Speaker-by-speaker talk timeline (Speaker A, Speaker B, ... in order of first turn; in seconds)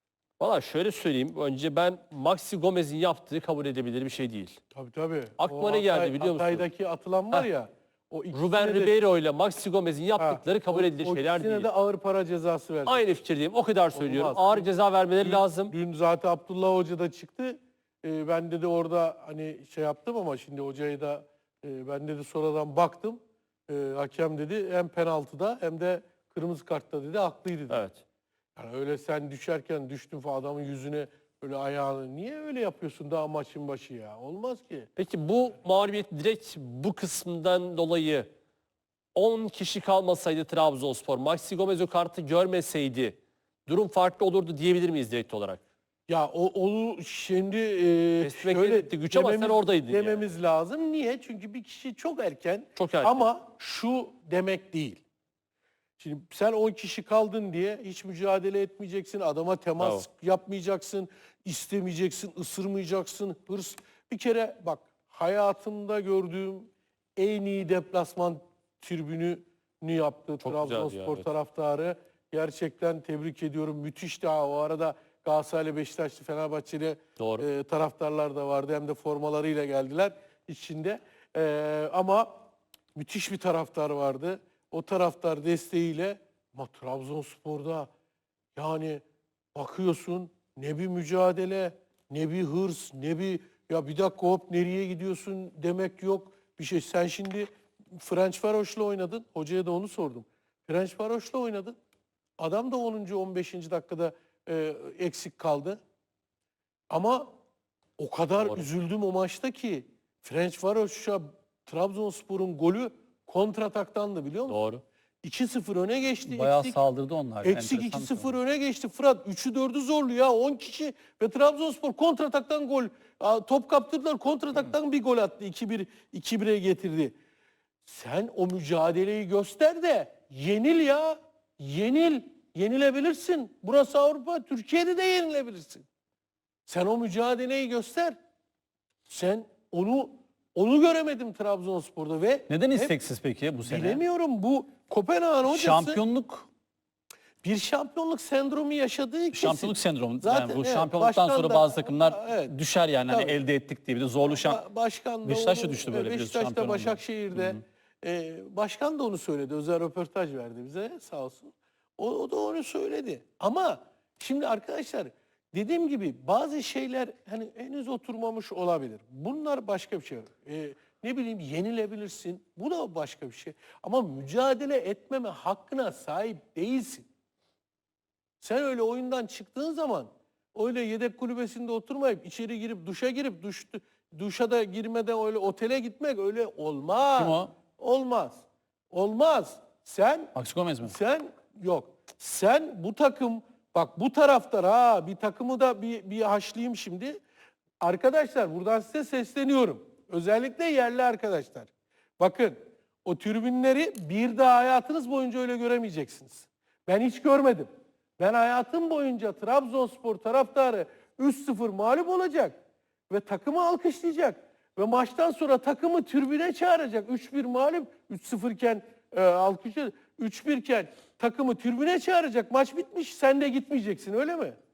Speaker A: 0.4-4.6, 5.4-6.7, 8.3-11.7, 12.9-15.7, 27.7-28.0, 35.0-38.3, 39.1-45.6, 48.2-50.3, 52.8-53.2, 59.8-60.0, 70.4-71.3, 77.2-77.5, 108.4-108.7, 114.5-114.8
Speaker B: 4.7-8.9, 10.2-13.1, 13.9-14.7, 15.2-27.8, 28.6-34.9, 46.1-55.0, 56.0-82.3, 83.0-87.9, 88.6-89.0, 89.5-101.8, 102.4-105.8, 106.9-107.3, 108.0-114.6, 115.2-116.8, 117.4-127.2, 127.8-135.8, 136.7-138.2, 139.1-143.0, 143.7-146.0, 147.4-152.5, 153.1-153.4, 154.2-177.1, 178.4-197.2, 197.8-212.6, 213.1-224.6
Speaker C: 116.2-118.4, 142.5-144.0, 145.4-146.5, 149.3-154.6, 155.2-157.6, 187.1-187.5, 190.3-191.0